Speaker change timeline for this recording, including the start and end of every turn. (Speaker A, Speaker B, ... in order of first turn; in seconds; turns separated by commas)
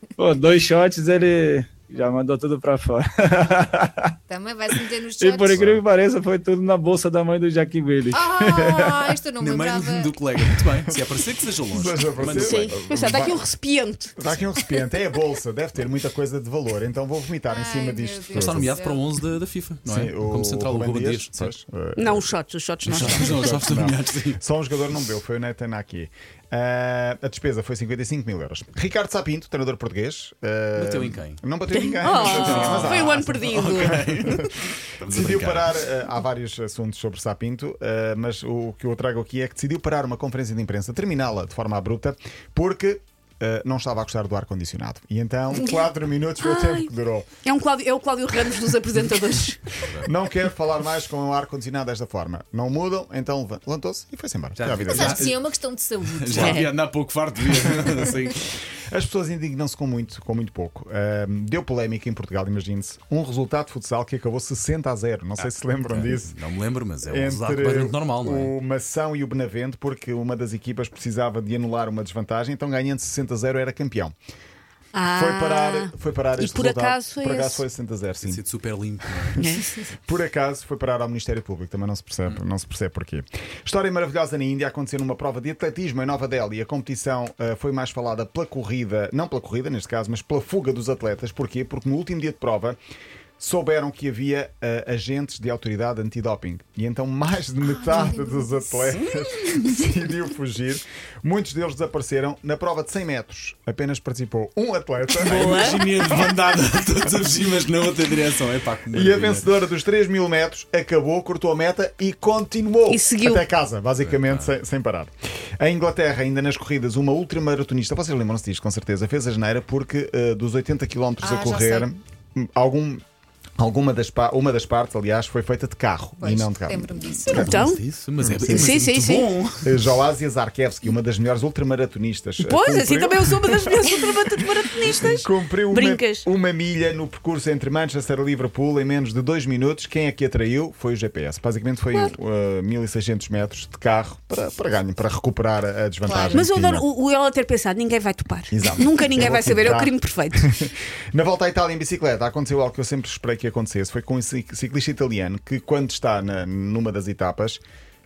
Speaker A: 0.2-4.1, Speaker B: 4.3-5.8, Speaker A: 5.2-9.2, Speaker B: 8.1-10.1, Speaker C: 9.4-12.8, Speaker D: 11.7-13.4, Speaker E: 12.3-14.1, Speaker D: 14.2-18.7, Speaker B: 17.5-19.0, Speaker C: 18.3-21.5, Speaker D: 19.8-34.5, Speaker E: 21.9-23.6, Speaker C: 22.9-24.4, Speaker C: 30.8-31.4, Speaker E: 31.7-34.3, Speaker C: 32.2-35.8, Speaker D: 35.0-47.3, Speaker E: 45.5-45.8, Speaker E: 46.4-46.9, Speaker E: 47.4-49.7, Speaker D: 50.0-55.3, Speaker C: 54.5-55.4, Speaker B: 54.9-56.7, Speaker C: 56.0-58.4, Speaker E: 56.3-56.7, Speaker D: 57.6-58.0, Speaker D: 58.9-66.3, Speaker C: 65.4-68.5, Speaker D: 67.0-74.1, Speaker E: 74.9-77.6, Speaker D: 75.1-78.4, Speaker C: 78.2-79.4, Speaker D: 79.2-92.8, Speaker E: 79.4-79.7, Speaker D: 93.4-106.1, Speaker B: 97.6-99.0, Speaker E: 98.9-99.8, Speaker E: 105.2-105.8, Speaker C: 105.2-109.5, Speaker D: 108.9-123.0, Speaker E: 112.9-113.4, Speaker C: 114.0-114.5, Speaker B: 121.2-121.9, Speaker D: 123.6-127.7, Speaker B: 126.2-127.5, Speaker E: 127.3-127.8, Speaker C: 127.4-129.8, Speaker D: 128.2-128.8, Speaker E: 128.4-129.4, Speaker D: 129.6-146.8, Speaker E: 132.4-136.2, Speaker B: 146.0-146.4, Speaker E: 146.3-150.6, Speaker D: 148.5-157.6